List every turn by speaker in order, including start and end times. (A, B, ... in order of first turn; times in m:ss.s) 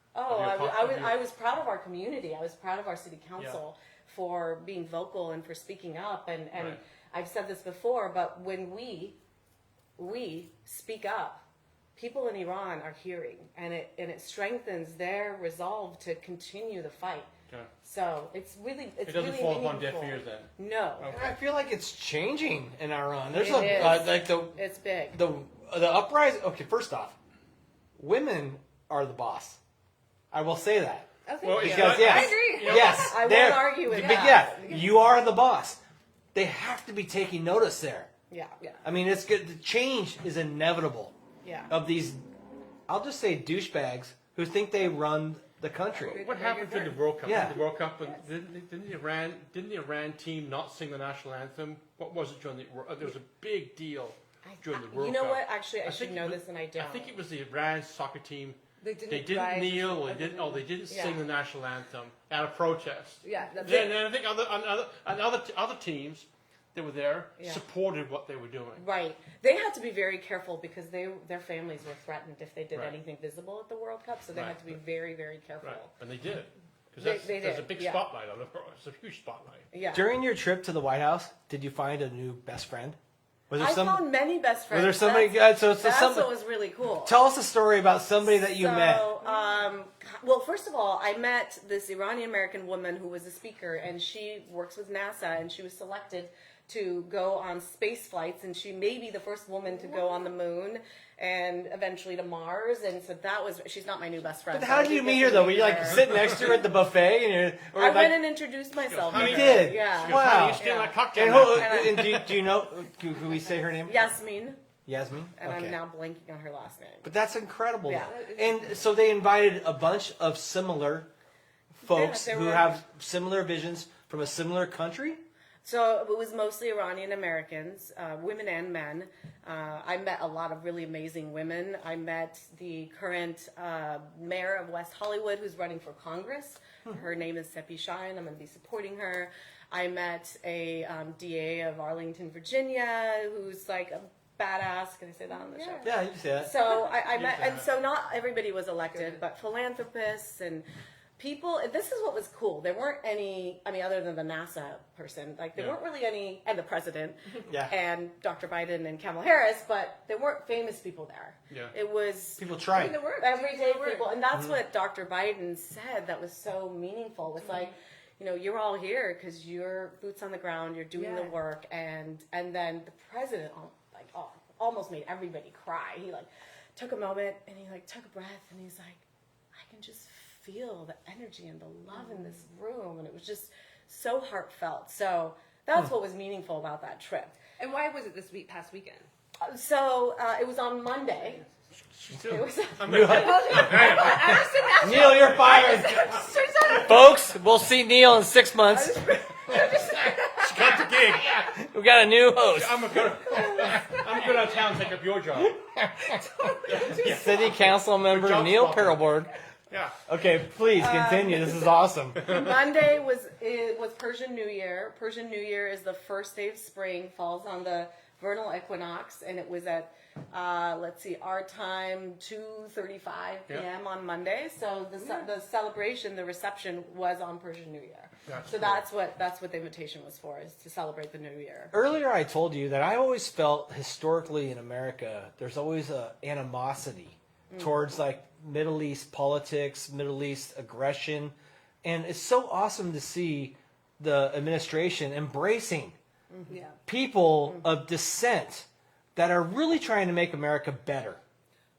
0:00.1-0:09.2 A
0:00.3-0:01.2 B
0:06.5-0:06.8 B
0:10.0-0:11.4 A
0:12.0-0:17.3 A
0:17.8-0:21.1 A
0:19.0-0:21.3 B
0:21.1-0:24.6 C
0:23.3-0:25.2 A
0:25.1-0:27.2 C
0:28.0-0:29.6 C
0:30.3-0:35.8 C
0:31.2-0:33.2 D
0:31.4-0:33.1 B
0:32.7-0:34.8 A
0:33.8-0:34.9 D
0:36.3-0:38.1 C
0:38.3-0:38.6 A
0:38.8-0:41.1 C
0:41.4-0:41.7 A
0:41.7-0:42.2 C
0:42.9-0:46.2 C
0:46.0-0:48.2 D
0:46.1-0:58.6 B
0:47.2-0:47.6 C
0:54.4-0:57.2 A
0:58.8-1:00.6 D
0:59.1-1:08.8 B
1:00.9-1:01.2 A
1:03.2-1:04.1 D
1:07.4-1:07.6 A
1:08.8-1:15.9 A
1:14.3-1:14.7 B
1:15.6-1:19.7 B
1:17.0-1:18.0 A
1:19.7-1:20.1 A
1:19.9-1:23.0 C
1:23.5-1:24.0 C
1:23.6-1:27.2 A
1:24.7-1:26.3 C
1:27.0-1:29.1 C
1:28.2-1:46.6 A
1:44.5-1:48.2 C
1:47.8-1:52.3 A
1:48.8-1:52.3 B
1:49.1-1:54.0 C
1:53.8-1:54.6 A
1:54.9-1:55.8 C
1:55.4-1:57.1 A
1:57.0-2:01.1 C
1:57.9-1:58.2 A
1:58.0-1:58.7 D
2:01.8-2:05.2 C
2:01.8-2:02.8 A
2:05.6-2:30.7 A
2:25.3-2:25.9 D
2:25.8-2:26.6 C
2:27.2-2:27.6 B
2:31.2-2:42.5 A
2:37.5-2:37.7 C
2:42.4-2:43.0 C
2:42.7-2:44.1 D
2:43.2-3:07.4 A
2:51.0-2:51.3 D
3:07.6-3:09.1 D
3:09.4-3:11.4 A
3:12.0-3:14.4 B
3:12.2-3:13.2 A
3:12.8-3:19.7 C
3:13.1-3:17.0 D
3:15.0-3:15.6 B
3:18.7-3:20.8 D
3:20.4-3:21.5 B
3:20.5-3:24.0 C
3:22.5-3:25.6 B
3:25.4-3:29.3 C
3:26.3-3:27.6 D
3:26.6-3:29.1 B
3:29.7-3:30.0 B
3:30.0-3:32.2 C
3:30.7-3:51.7 A
3:45.0-3:45.3 D
3:48.3-3:48.8 B
3:51.7-4:06.0 C
3:57.5-3:57.8 A
4:06.3-4:06.6 A
4:06.5-4:06.8 D
4:06.9-4:11.2 C